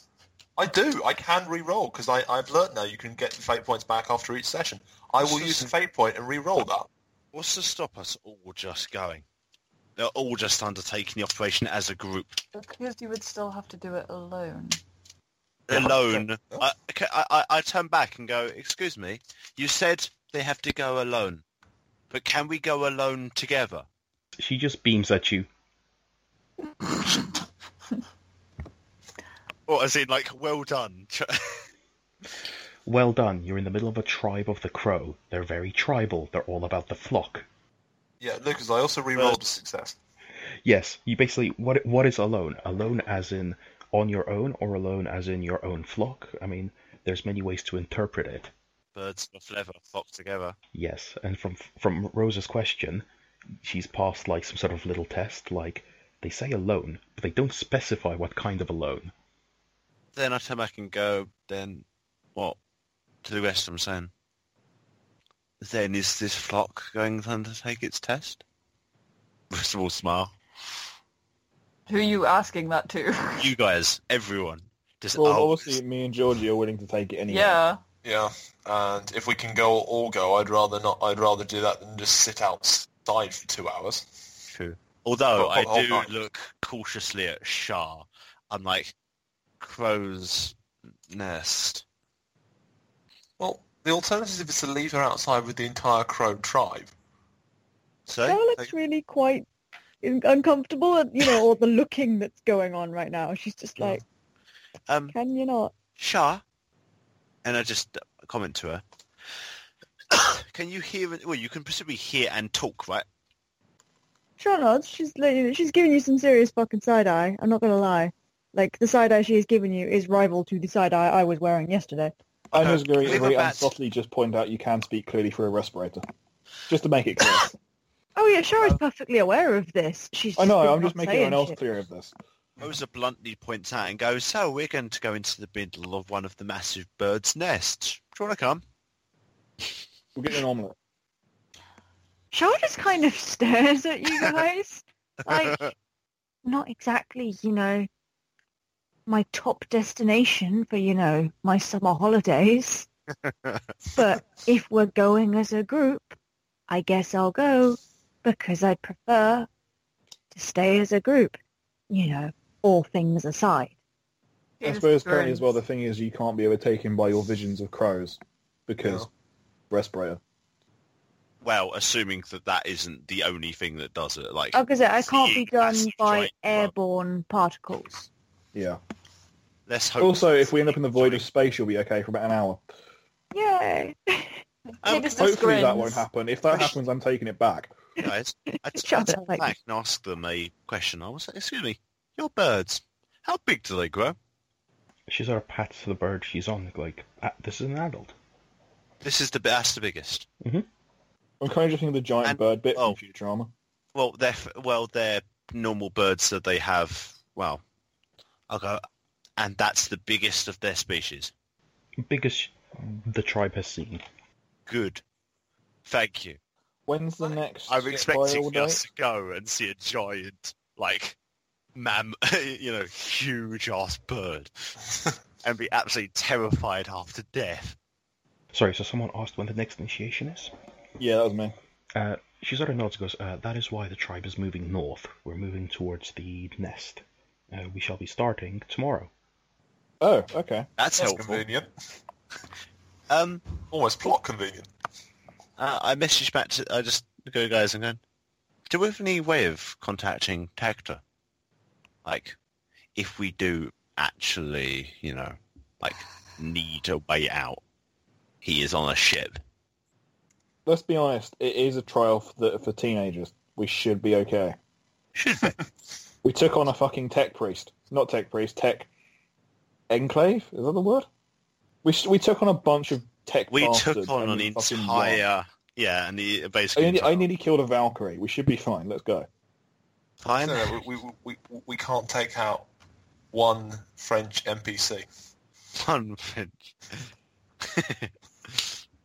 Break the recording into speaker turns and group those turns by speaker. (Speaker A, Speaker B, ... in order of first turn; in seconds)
Speaker A: 0.6-6.9, 15.7-16.7, 38.2-40.0, 78.0-84.1, 85.3-86.1, 93.4-96.9, 168.8-169.1, 240.9-241.7, 243.7-244.7, 280.4-282.7, 283.3-285.1
Speaker B: 5.2-5.7, 7.3-9.2, 10.0-12.4, 15.7-21.4, 22.1-23.9, 29.7-31.7, 39.2-39.4, 49.0-50.6, 60.1-62.6, 63.2-64.1, 65.6-68.4, 69.5-70.3, 73.4-75.8, 84.5-89.0, 89.6-90.6, 91.1-91.8, 98.1-98.7, 104.9-105.2, 106.0-106.4, 107.4-108.8, 110.1-113.1, 122.5-123.7, 132.6-138.6, 145.3-145.7, 153.2-153.6, 171.4-176.7, 179.7-181.3, 184.8-185.2, 188.0-194.2, 199.0-200.3, 202.2-203.0, 203.9-207.6, 208.5-208.8, 209.4-211.3, 214.7-215.0, 215.9-216.4, 217.7-221.2, 221.8-224.7, 225.4-227.8, 240.8-241.4, 243.1-243.4, 245.6-248.0, 248.7-251.0, 252.1-252.4, 252.9-257.6, 258.4-259.4, 265.2-265.6, 273.5-277.3, 280.2-280.8, 285.8-287.1, 287.6-288.8
Speaker C: 12.5-14.8, 71.9-73.5, 77.3-77.8, 164.6-165.6, 184.8-186.1
Speaker D: 24.4-25.5, 32.9-37.5, 40.6-48.5, 50.8-53.1, 53.6-59.1, 195.1-198.1, 212.0-214.0, 228.5-230.5, 231.9-239.1
Speaker E: 75.2-77.6, 122.5-126.0, 126.7-127.5, 130.4-132.1, 140.2-140.8, 164.6-169.1, 169.7-170.2, 178.5-178.8, 180.0-182.6, 185.1-187.7, 201.4-203.5, 216.9-218.8, 231.0-231.6, 240.0-240.7, 260.7-264.6, 266.2-268.9, 269.9-271.1, 271.8-275.2, 276.8-279.3
Speaker F: 98.2-99.5, 100.0-104.0, 105.1-105.8, 114.4-122.1, 128.2-131.6, 142.3-145.7, 146.4-147.9, 149.1-152.9, 153.9-156.2, 156.7-159.5, 160.3-161.4, 161.9-163.7, 174.5-178.1, 183.3-184.4, 188.0-189.5